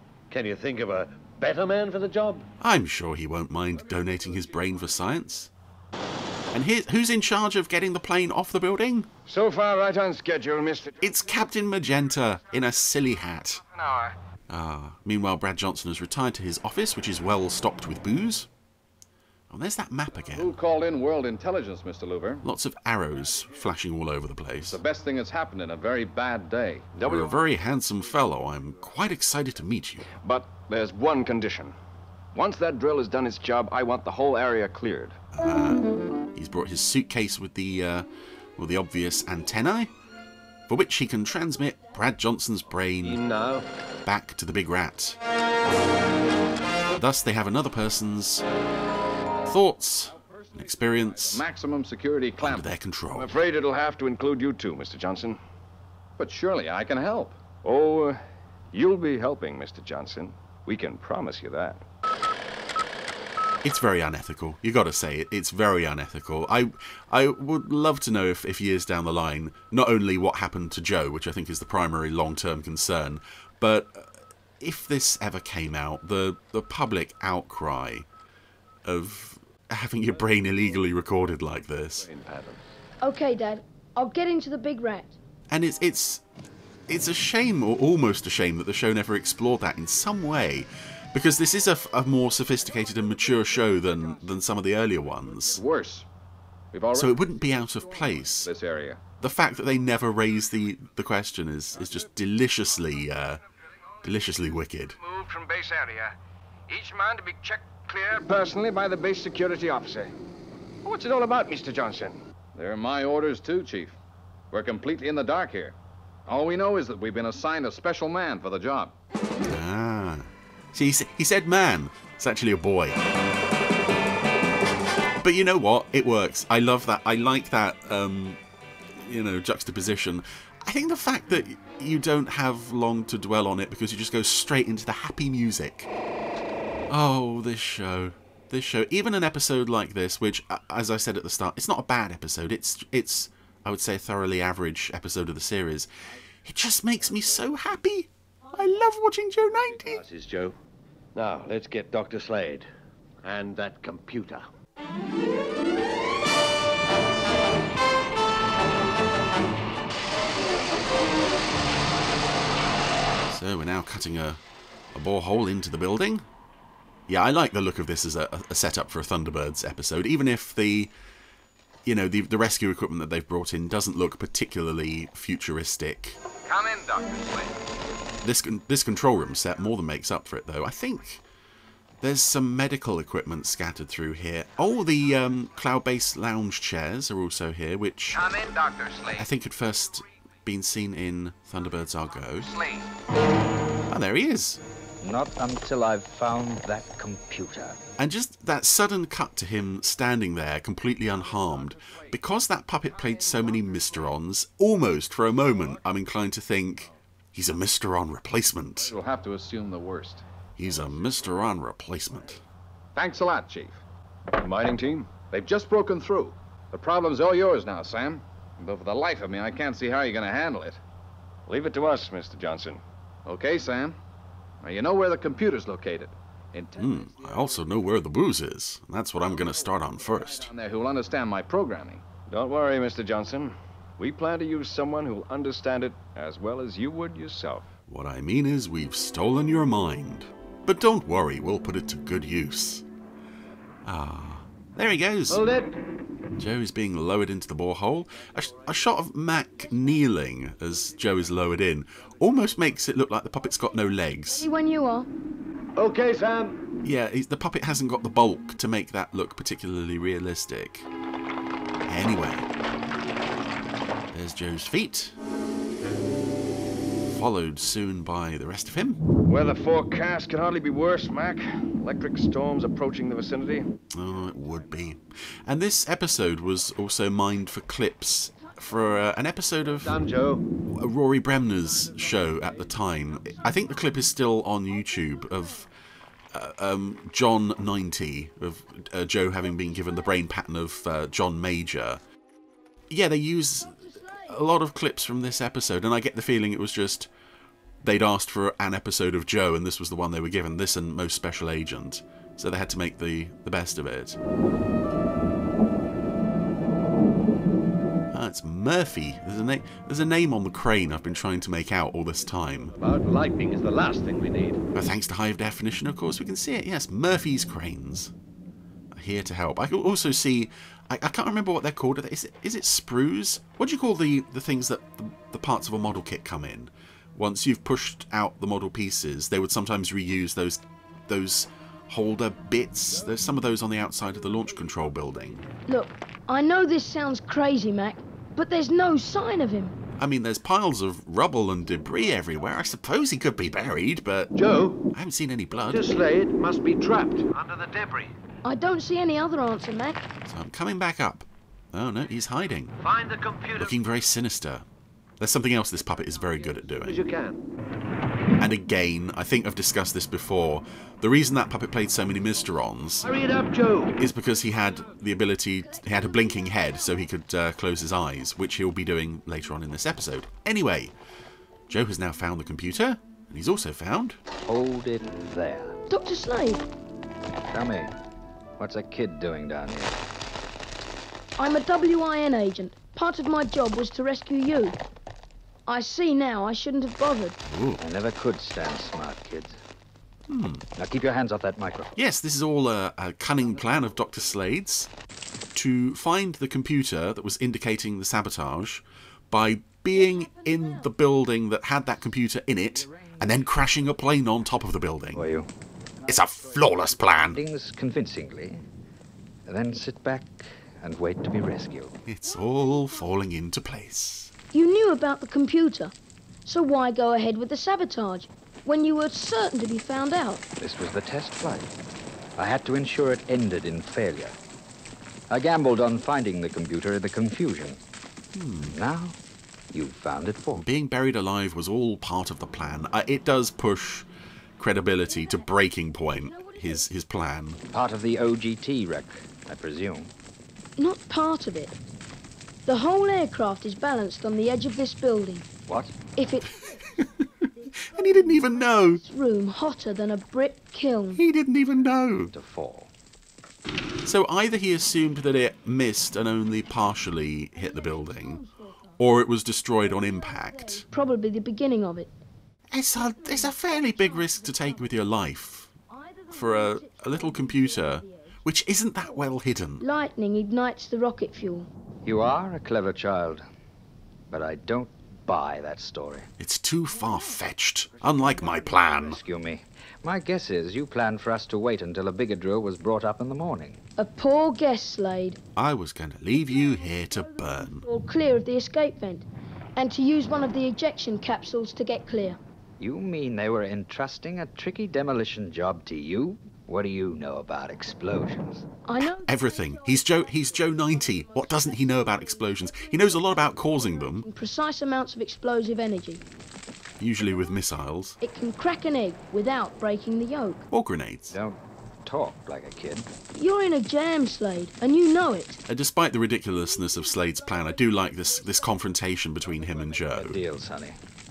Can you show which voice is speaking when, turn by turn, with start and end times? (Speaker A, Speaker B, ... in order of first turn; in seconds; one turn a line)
Speaker A: 0.3-2.5
Speaker B: 2.6-5.5
Speaker B: 6.5-9.1
Speaker C: 9.2-11.0
Speaker B: 11.0-13.6
Speaker C: 13.8-14.1
Speaker B: 14.5-18.5
Speaker B: 19.5-20.6
Speaker D: 20.3-22.4
Speaker B: 22.4-24.8
Speaker D: 24.6-26.9
Speaker B: 27.0-30.2
Speaker C: 27.0-27.4
Speaker C: 30.1-31.7
Speaker C: 32.3-35.2
Speaker B: 35.3-38.0
Speaker B: 38.6-39.9
Speaker B: 40.7-43.2
Speaker A: 43.0-43.7
Speaker B: 44.0-45.2
Speaker B: 46.9-48.4
Speaker B: 49.5-51.4
Speaker D: 51.3-52.7
Speaker B: 52.4-53.4
Speaker C: 53.1-55.4
Speaker D: 56.2-57.4
Speaker C: 57.6-58.2
Speaker C: 58.7-61.8
Speaker B: 63.6-74.0
Speaker B: 74.6-78.0
Speaker B: 78.8-82.1
Speaker A: 82.0-82.7
Speaker E: 83.0-85.2
Speaker B: 85.5-86.2
Speaker B: 86.9-95.6
Speaker D: 95.5-96.1
Speaker D: 96.7-97.2
Speaker B: 96.9-98.5
Speaker D: 98.4-99.0
Speaker B: 99.2-103.4
Speaker B: 104.0-105.0
Speaker C: 105.0-106.1
Speaker C: 106.7-110.1
Speaker C: 110.8-112.2
Speaker D: 112.5-114.0
Speaker D: 114.5-115.8
Speaker D: 116.3-118.9
Speaker B: 119.5-123.0
Speaker B: 125.2-128.4
Speaker B: 128.9-135.9
Speaker B: 136.9-145.9
Speaker B: 146.4-150.0
Speaker A: 149.8-150.6
Speaker A: 151.1-152.7
Speaker A: 153.2-154.4
Speaker B: 163.3-164.4
Speaker B: 164.9-166.2
Speaker B: 167.1-170.9
Speaker B: 171.8-176.2
Speaker D: 176.4-177.6
Speaker B: 178.2-181.2
Speaker B: 182.0-188.2
Speaker D: 188.1-189.2
Speaker B: 189.2-192.5
Speaker D: 192.4-192.9
Speaker B: 193.9-194.6
Speaker F: 195.0-197.8
Speaker B: 198.0-208.9
Speaker D: 208.8-210.2
Speaker B: 210.6-212.4
Speaker D: 212.9-213.8
Speaker C: 214.4-215.1
Speaker D: 215.2-220.8
Speaker C: 221.5-222.8
Speaker D: 223.2-224.0
Speaker D: 224.6-226.9
Speaker B: 226.8-230.5
Speaker D: 230.4-232.0
Speaker C: 232.3-237.7
Speaker B: 237.9-242.8
Speaker B: 243.8-245.4
Speaker A: 245.3-245.8
Speaker B: 246.4-254.4
Speaker E: 254.3-255.1
Speaker A: 255.8-256.6
Speaker B: 256.8-260.9
Speaker B: 261.9-262.5
Speaker B: 264.1-265.1
Speaker B: 267.0-269.0
Speaker C: 269.2-273.7
Speaker B: 273.9-279.9
Speaker A: 279.8-280.4
Speaker B: 280.7-285.7
Speaker B: 286.3-292.0
Speaker B: 292.9-297.1
Speaker B: 297.8-304.2
Speaker B: 308.1-312.7
Speaker A: 312.6-314.6
Speaker B: 314.7-318.1
Speaker B: 318.9-335.4
Speaker E: 335.7-339.7
Speaker B: 340.0-344.3
Speaker A: 344.3-344.8
Speaker B: 344.9-345.9
Speaker A: 345.7-348.1
Speaker E: 348.4-350.0
Speaker B: 350.2-352.7
Speaker A: 352.8-353.8
Speaker B: 353.6-354.6
Speaker B: 355.2-357.0
Speaker A: 356.7-357.4
Speaker B: 358.4-363.1
Speaker A: 363.0-364.0
Speaker B: 364.0-370.9
Speaker B: 371.7-374.2
Speaker F: 374.4-375.8
Speaker E: 375.9-376.6
Speaker F: 377.5-377.9
Speaker F: 378.6-380.0
Speaker E: 381.4-384.8
Speaker E: 385.7-387.4
Speaker B: 387.4-387.8
Speaker F: 387.8-389.6
Speaker B: 390.3-390.6
Speaker F: 390.8-392.0
Speaker B: 391.9-394.9
Speaker B: 395.5-405.3
Speaker F: 405.1-405.5
Speaker B: 406.1-407.4
Speaker F: 407.3-408.6
Speaker F: 409.4-412.0
Speaker B: 412.1-414.3
Speaker E: 414.5-415.9
Speaker E: 416.4-420.4
Speaker F: 420.6-421.7
Speaker F: 422.4-424.4
Speaker F: 425.3-427.8
Speaker B: 428.3-428.8
Speaker F: 428.7-429.2
Speaker F: 429.7-430.6
Speaker B: 430.6-434.1
Speaker B: 434.6-437.6
Speaker E: 435.1-435.5
Speaker E: 436.1-436.9
Speaker F: 437.7-440.1
Speaker E: 440.8-441.8
Speaker E: 442.6-445.5
Speaker F: 445.7-445.9
Speaker E: 446.1-446.6
Speaker B: 447.0-447.2
Speaker B: 447.8-449.0
Speaker E: 448.4-451.2
Speaker B: 451.1-452.3
Speaker F: 452.3-452.9
Speaker B: 454.0-458.4
Speaker E: 457.6-459.0
Speaker B: 459.0-460.9
Speaker E: 460.0-462.1
Speaker B: 462.7-465.7
Speaker E: 463.2-464.9
Speaker E: 465.9-468.3
Speaker B: 466.3-469.8
Speaker E: 469.8-471.7
Speaker F: 472.0-473.4
Speaker F: 474.3-476.3
Speaker B: 476.4-479.2
Speaker F: 478.6-483.8
Speaker E: 484.0-485.4
Speaker B: 485.6-487.9
Speaker E: 486.6-492.4
Speaker F: 492.8-498.6
Speaker E: 498.9-506.2
Speaker B: 499.0-504.3
Speaker B: 507.0-508.2
Speaker E: 508.2-510.6
Speaker B: 510.7-511.3
Speaker F: 511.3-513.1
Speaker E: 513.3-515.6
Speaker B: 515.7-520.4
Speaker F: 520.1-521.0